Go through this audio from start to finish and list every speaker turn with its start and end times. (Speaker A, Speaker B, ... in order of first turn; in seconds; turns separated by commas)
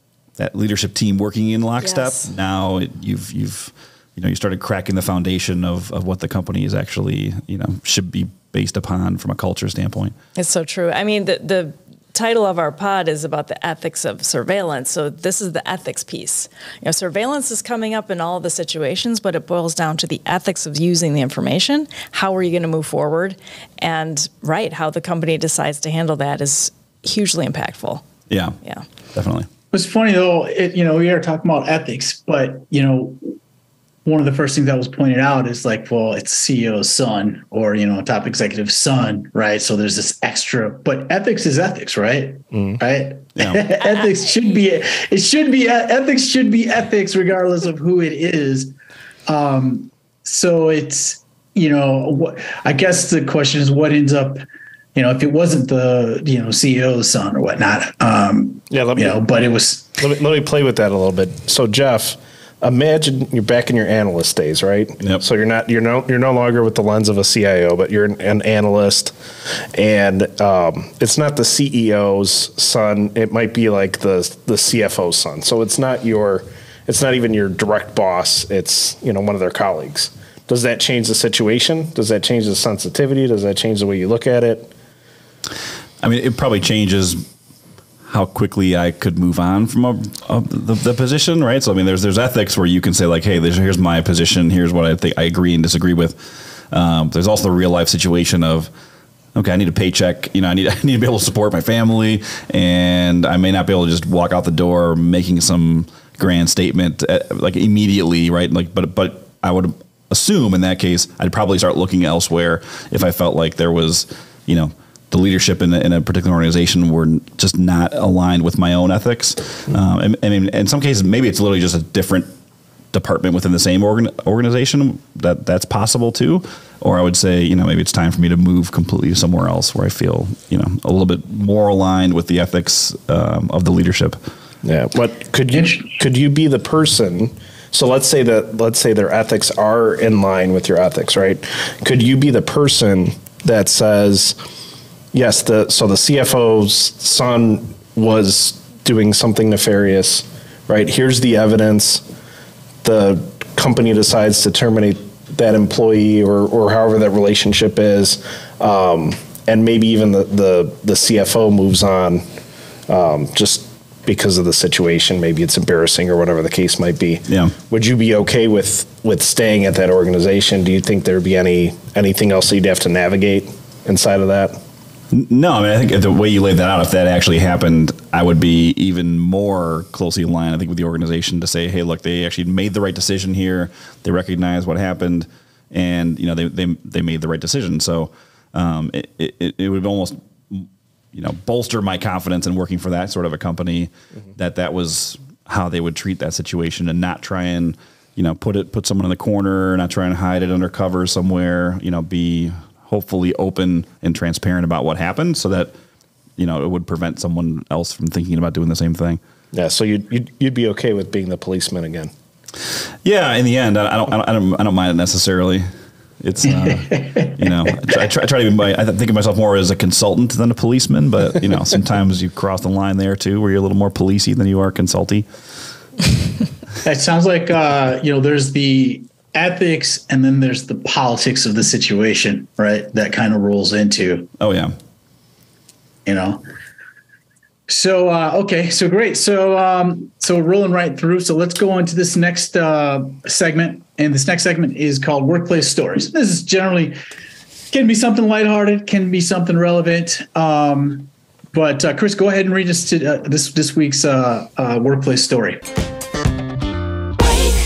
Speaker A: 0.4-10.1, Speaker B: 1.8-2.3, Speaker B: 10.3-28.0, Speaker A: 28.3-28.6, Speaker A: 29.1-29.5, Speaker C: 29.7-33.3, Speaker C: 34.0-48.7, Speaker D: 42.5-42.8, Speaker A: 43.4-43.6, Speaker B: 43.9-44.3, Speaker C: 49.3-54.4, Speaker C: 54.9-60.0, Speaker D: 58.7-59.2, Speaker D: 60.0-69.1, Speaker D: 69.7-84.7, Speaker A: 86.0-87.2, Speaker A: 88.1-98.7, Speaker A: 99.3-122.3, Speaker A: 122.9-134.2, Speaker D: 134.6-144.4, Speaker D: 145.1-152.0, Speaker D: 152.8-162.2, Speaker D: 162.9-174.6, Speaker A: 167.3-167.5, Speaker A: 175.1-205.7, Speaker A: 206.4-209.2, Speaker D: 209.5-212.1, Speaker A: 213.0-215.7, Speaker A: 216.2-225.2, Speaker C: 216.4-217.9, Speaker C: 226.8-234.3, Speaker A: 234.4-234.7, Speaker C: 236.0-236.4, Speaker C: 237.7-247.0, Speaker C: 247.7-255.6